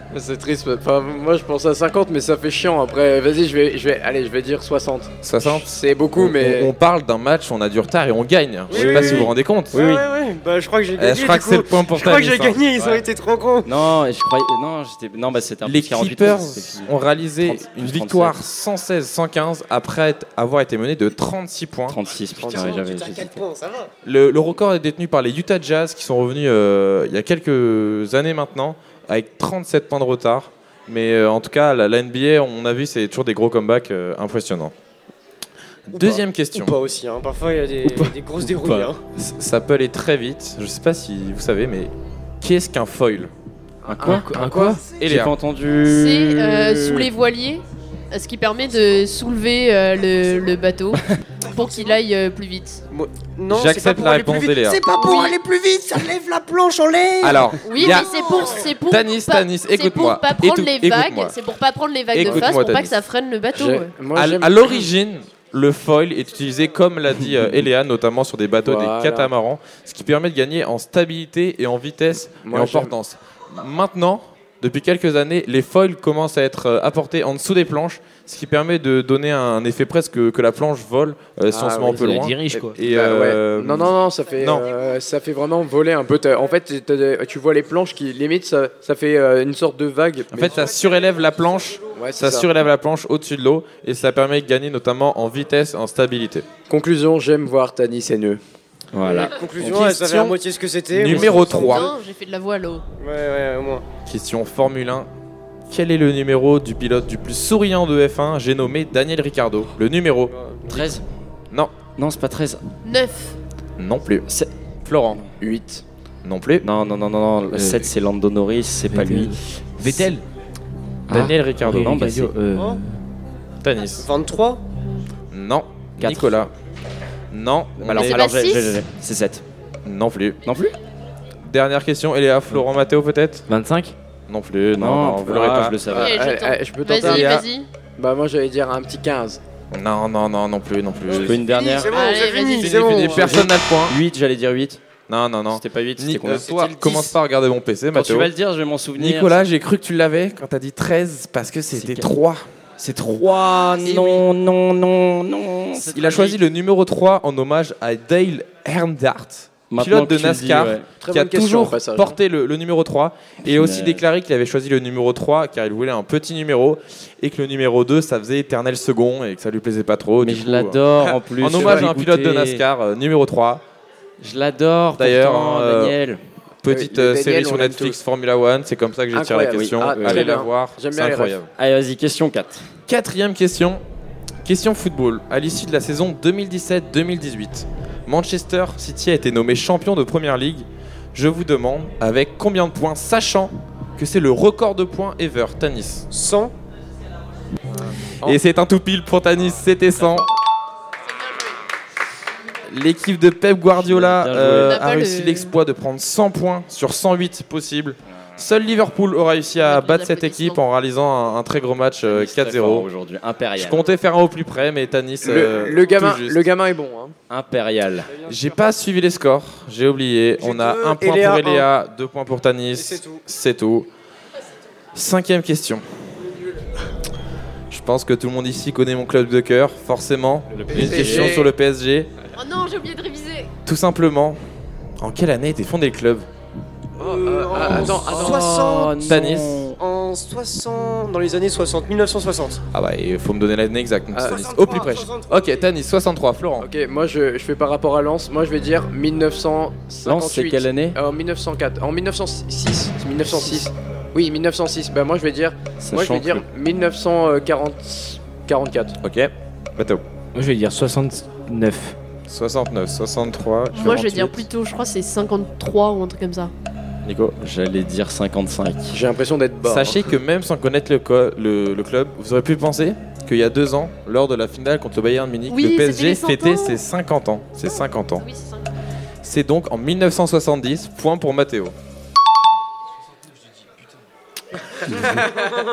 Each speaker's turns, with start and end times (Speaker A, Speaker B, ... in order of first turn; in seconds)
Speaker A: 0.1-6.7, 22.4-22.8, 43.9-44.8, 63.5-64.8, 68.7-69.3, 72.5-72.9, 81.5-82.0, 82.5-90.6, 92.0-92.5, 96.7-98.4, 115.4-115.8, 135.9-137.4, 138.0-139.4, 161.0-162.2, 171.1-171.9, 176.7-178.0, 179.1-181.4, 215.2-217.1, 230.6-231.5, 237.0-238.9, 244.1-244.4, 246.6-259.0, 268.9-270.1
Speaker B: 5.2-9.8, 11.0-12.6, 15.7-22.0, 24.1-34.7, 35.9-36.8, 39.2-43.3, 45.0-45.3, 53.5-54.8, 57.2-58.1, 58.7-61.4, 62.1-63.0, 64.2-84.7, 90.3-96.5, 99.6-100.4, 100.9-101.9, 104.1-105.1, 105.7-110.8, 113.8-114.3, 114.8-115.2, 116.2-116.7, 121.1-121.9, 123.6-124.1, 125.3-126.5, 127.3-128.2, 129.8-130.4, 131.4-133.5, 134.3-135.8, 137.0-137.4, 139.7-141.4, 142.6-144.0, 145.1-148.3, 149.0-152.4, 153.8-154.2, 155.8-170.8, 171.4-173.6, 175.0-176.0, 176.6-181.5, 182.9-183.8, 184.4-196.1, 198.2-200.3, 202.7-212.9, 213.6-216.4, 218.3-223.9, 224.9-226.3, 227.7-232.1, 233.7-234.4, 235.0-236.3, 237.7-238.2, 239.1-239.7, 242.7-246.7, 259.0-260.0, 262.3-264.4, 267.0-267.4, 269.6-278.3, 279.2-281.8
Speaker C: 8.7-13.7, 22.4-23.9, 35.9-39.0, 51.5-51.8, 52.9-57.6, 99.0-101.9, 103.0-103.8, 110.3-110.9, 124.0-124.6, 141.1-143.5, 196.1-196.5, 220.4-221.7, 222.7-223.2, 237.0-242.6, 244.2-245.7, 285.3-285.6
Speaker D: 8.7-9.2, 9.7-10.0, 12.8-13.0, 13.6-18.4, 21.9-23.4, 38.6-38.9, 43.9-44.2, 45.0-47.1, 98.9-99.4, 110.7-111.0, 112.0-112.6, 116.6-120.1, 121.1-122.3, 126.0-126.4, 127.8-129.4, 130.4-130.8, 134.8-136.2, 141.1-141.9, 143.9-144.8, 145.5-147.1, 147.9-149.5, 151.7-152.1, 152.8-156.4, 159.7-160.9, 163.4-164.0, 170.2-172.7, 174.2-176.2, 179.5-180.3, 181.6-182.7, 200.0-200.3, 203.8-204.8, 212.1-213.8, 217.3-218.1, 230.6-231.4, 237.7-239.8, 250.0-251.0, 255.8-256.4, 267.4-269.0, 284.9-285.3
Speaker E: 44.0-44.8, 81.9-82.8, 117.5-117.9, 118.9-120.2, 121.1-123.0, 133.5-133.9, 260.4-262.0
Speaker F: 45.9-52.8, 55.0-55.4, 57.6-64.0, 101.4-102.8, 112.8-113.4, 128.0-128.8, 135.9-137.7, 141.8-143.4, 204.7-205.5, 209.6-210.6, 232.3-233.5, 263.7-266.5, 275.5-276.8, 278.2-278.6